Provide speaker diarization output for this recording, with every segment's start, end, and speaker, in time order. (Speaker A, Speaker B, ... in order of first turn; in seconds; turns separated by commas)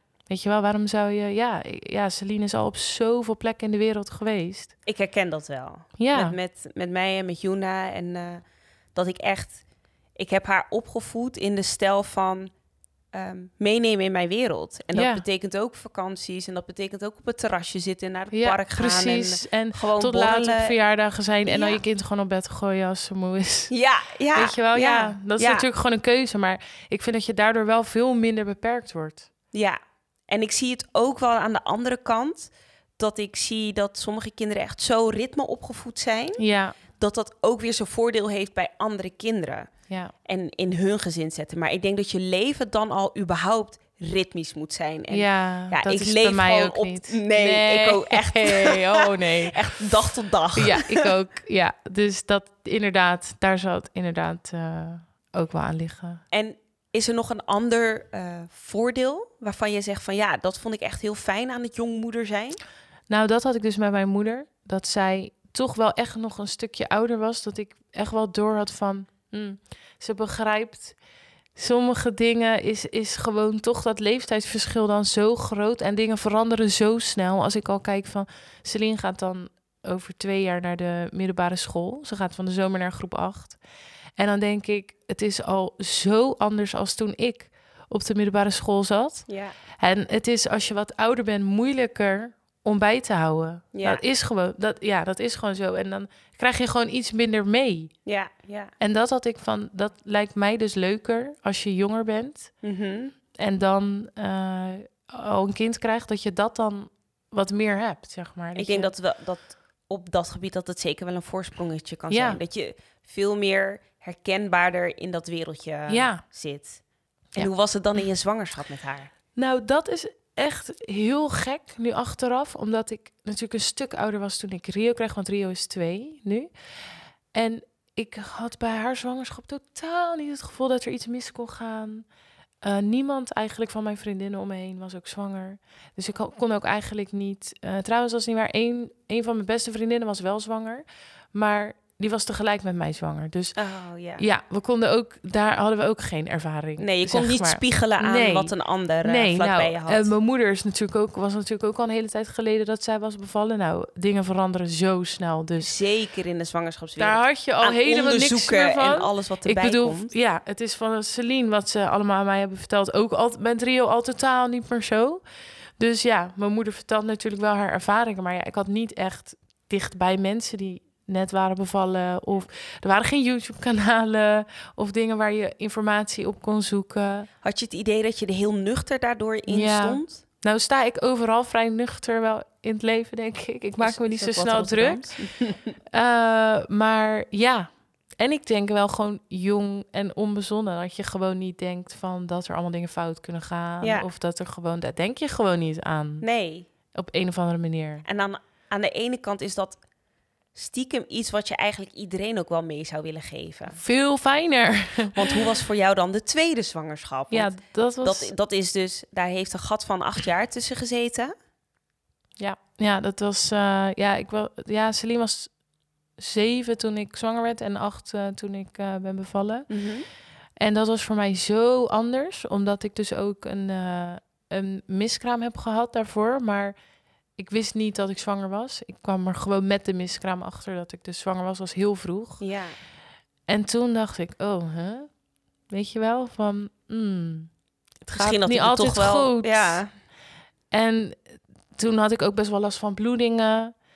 Speaker A: 0.3-4.7, Speaker B: 4.8-8.4, Speaker A: 6.0-6.4, Speaker B: 8.9-9.6, Speaker B: 10.2-12.5, Speaker B: 13.1-20.7, Speaker A: 14.9-15.2, Speaker A: 18.3-23.7, Speaker B: 21.4-21.8, Speaker B: 23.7-25.7, Speaker A: 24.3-29.3, Speaker B: 29.5-36.4, Speaker A: 36.4-36.8, Speaker B: 37.0-39.7, Speaker B: 40.2-51.1, Speaker A: 45.1-49.9, Speaker A: 50.5-56.2, Speaker B: 56.3-62.6, Speaker A: 63.1-71.0, Speaker A: 71.5-83.6, Speaker A: 84.2-89.3, Speaker B: 89.3-89.5, Speaker A: 89.8-97.9, Speaker B: 93.7-94.0, Speaker B: 98.0-98.7, Speaker A: 98.8-102.5, Speaker B: 102.6-103.1, Speaker A: 103.4-108.9, Speaker B: 108.5-116.8, Speaker A: 112.1-112.4, Speaker A: 115.9-116.2, Speaker B: 117.3-119.1, Speaker A: 119.3-126.5, Speaker A: 127.3-132.1, Speaker A: 132.6-143.6, Speaker B: 143.6-144.2, Speaker A: 144.2-148.5, Speaker B: 146.8-150.1, Speaker A: 149.0-155.7, Speaker B: 155.6-160.1, Speaker A: 157.0-165.2, Speaker A: 165.8-177.3, Speaker B: 177.4-180.2, Speaker A: 179.5-185.1, Speaker B: 183.8-185.7, Speaker A: 185.9-187.7, Speaker A: 188.2-196.2, Speaker B: 196.2-196.7, Speaker A: 196.9-198.0, Speaker B: 198.0-199.8, Speaker B: 200.5-203.8, Speaker A: 203.7-205.4, Speaker B: 205.1-207.5, Speaker A: 207.3-208.3, Speaker B: 208.0-211.3, Speaker A: 212.4-215.5, Speaker A: 216.2-219.7, Speaker B: 219.7-220.1, Speaker A: 220.6-226.7, Speaker A: 227.4-232.4, Speaker B: 232.4-232.7, Speaker A: 233.5-235.1, Speaker A: 235.7-237.5, Speaker A: 238.1-239.8, Speaker B: 238.2-239.9, Speaker A: 240.7-241.2, Speaker A: 241.8-243.7